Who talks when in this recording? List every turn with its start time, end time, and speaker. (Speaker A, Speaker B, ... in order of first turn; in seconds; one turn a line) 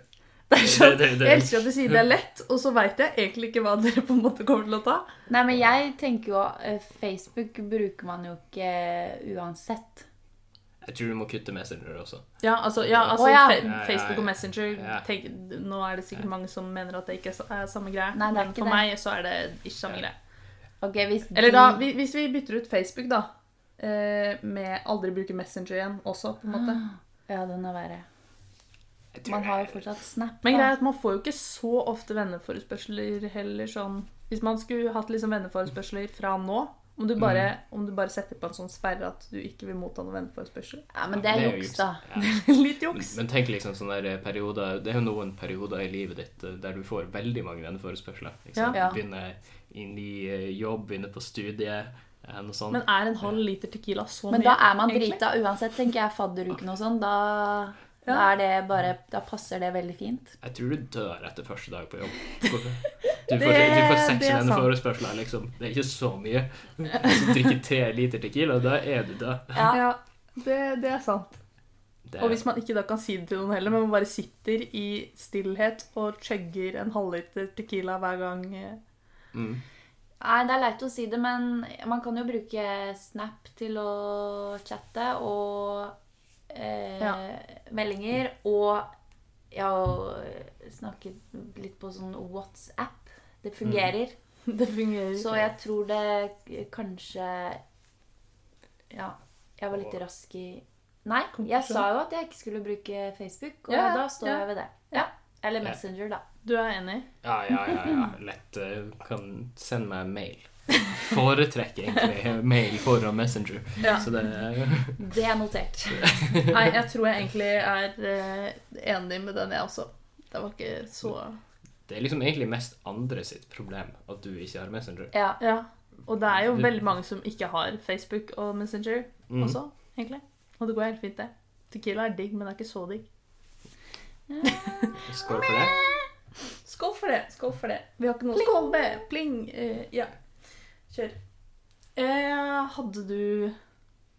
Speaker A: 0.5-5.0
Speaker B: 0.5-2.0
Speaker C: 5.3-10.1
Speaker B: 10.8-15.0
Speaker A: 12.4-20.1
Speaker C: 13.2-13.6
Speaker C: 18.1-18.8
Speaker C: 20.8-21.8
Speaker A: 21.3-26.8
Speaker C: 26.5-28.1
Speaker B: 29.1-29.8
Speaker C: 29.2-30.7
Speaker A: 30.4-40.9
Speaker B: 37.2-37.5
Speaker C: 40.9-42.0
Speaker B: 41.1-53.3
Speaker A: 42.2-43.2
Speaker A: 48.5-48.8
Speaker C: 48.7-49.0
Speaker A: 52.7-55.2
Speaker C: 54.3-60.4
Speaker B: 60.4-69.7
Speaker A: 63.3-64.7
Speaker C: 69.5-69.8
Speaker A: 69.7-71.4
Speaker B: 72.1-72.4
Speaker A: 72.2-78.8
Speaker B: 79.3-79.6
Speaker C: 80.2-86.0
Speaker C: 86.5-88.9
Speaker C: 89.5-94.2
Speaker B: 93.6-93.9
Speaker A: 94.5-95.4
Speaker C: 95.2-97.6
Speaker C: 98.9-106.2
Speaker A: 101.4-101.8
Speaker A: 103.7-105.0
Speaker A: 106.4-107.1
Speaker B: 107.2-115.0
Speaker C: 115.0-116.2
Speaker B: 115.9-116.5
Speaker A: 116.5-121.4
Speaker B: 121.8-125.1
Speaker C: 125.1-125.4
Speaker A: 125.4-133.1
Speaker B: 126.5-126.7
Speaker B: 129.3-129.6
Speaker C: 134.3-135.0
Speaker A: 134.4-134.9
Speaker B: 135.0-135.8
Speaker A: 136.6-141.2
Speaker C: 138.3-139.0
Speaker A: 141.9-143.5